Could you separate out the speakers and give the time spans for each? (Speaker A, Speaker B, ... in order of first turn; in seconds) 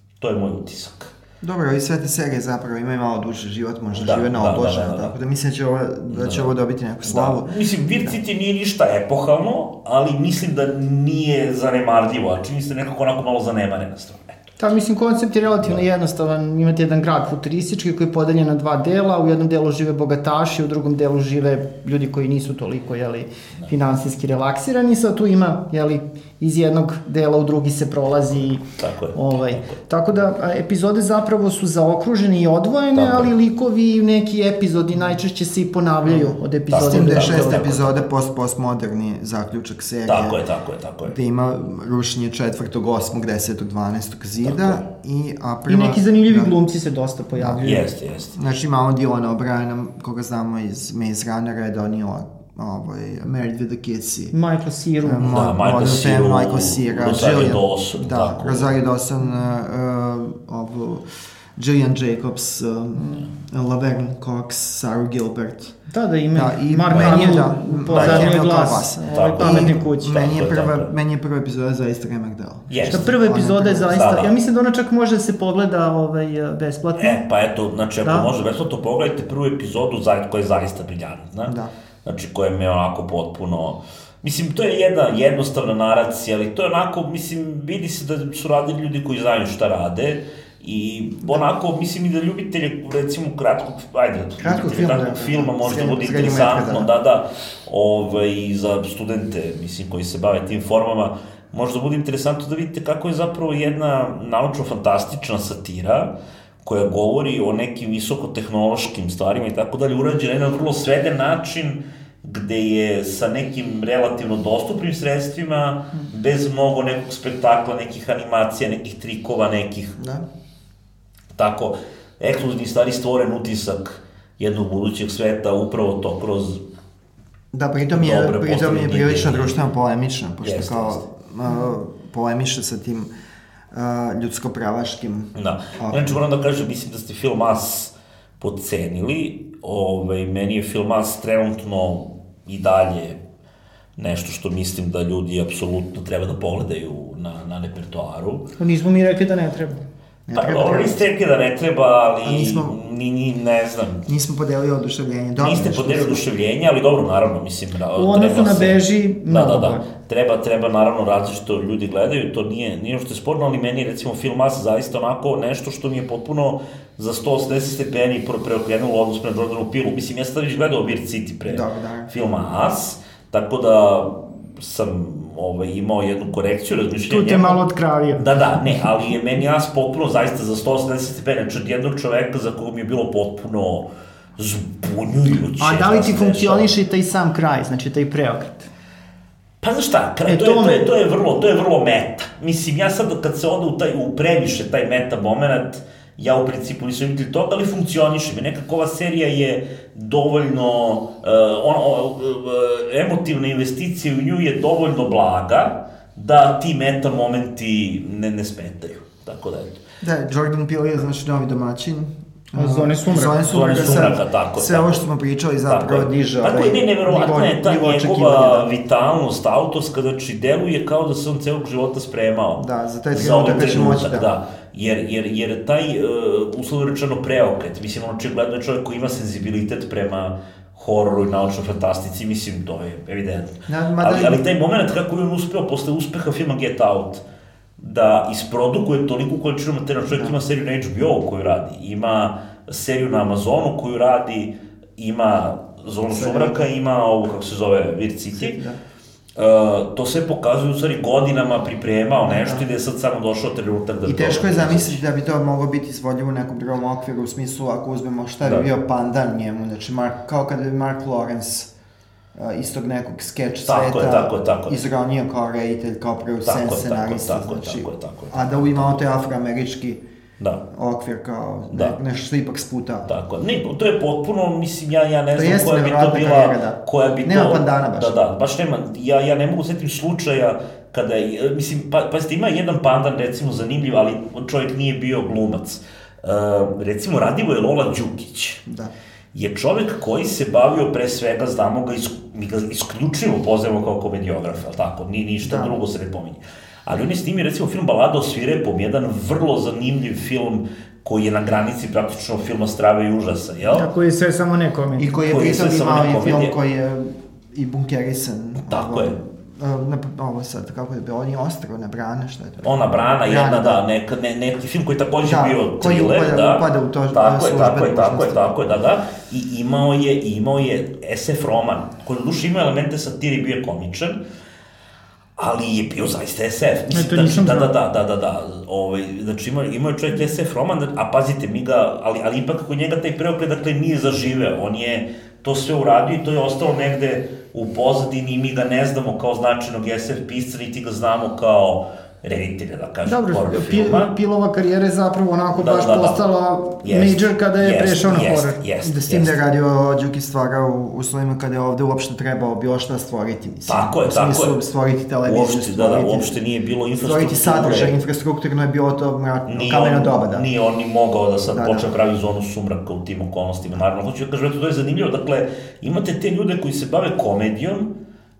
Speaker A: 0.2-1.1, 3.9-5.1, 6.1-6.5, 7.0-14.4, 28.8-29.8, 32.9-33.3, 36.7-38.0, 40.1-41.2, 44.4-44.8, 47.6-48.3, 55.2-58.7, 66.9-67.3, 67.9-68.3, 69.1-70.9, 72.7-73.2, 73.9-74.3, 77.0-106.1, 106.6-120.0, 121.3-126.6, 127.9-129.7, 130.4-131.0, 135.3-143.2, 144.0-148.5, 150.3-154.1, 155.4-177.6, 178.2-183.9, 184.4-186.7, 189.6-209.8, 213.3-215.0, 215.7-237.2, 237.8-248.6, 249.3-255.0, 263.6-264.9, 266.4-269.2, 273.1-288.6, 289.3-303.9, 305.3-306.5, 308.6-309.1, 312.6-324.2, 325.4-344.1, 345.5-346.2, 346.8-349.4, 353.7-354.6, 355.2-358.0, 359.5-367.9
Speaker B: 1.4-8.2, 36.8-40.4, 41.0-46.5, 48.3-54.3, 55.0-65.8, 66.3-74.3, 81.5-81.7, 94.4-96.9, 120.0-120.2, 127.5-133.1, 133.7-136.2, 150.3-151.0, 152.2-152.8, 154.1-156.2, 171.5-172.1, 210.0-218.7, 222.6-224.3, 233.7-234.4, 246.1-246.7, 248.3-248.8, 252.2-252.7, 254.0-261.7, 262.3-270.0, 270.7-273.1, 275.3-278.2, 288.7-288.9, 295.4-295.8, 305.0-313.8, 315.2-318.6, 348.8-356.3, 357.0-360.4, 361.5-361.9
Speaker C: 14.6-37.7, 45.7-47.8, 54.3-55.3, 63.0-63.3, 65.9-70.3, 72.9-77.2, 78.0-78.3, 148.6-149.8, 157.9-159.8, 177.1-178.2, 185.6-188.7, 190.2-190.9, 212.6-213.5, 303.7-305.1, 326.9-327.7, 343.1-348.6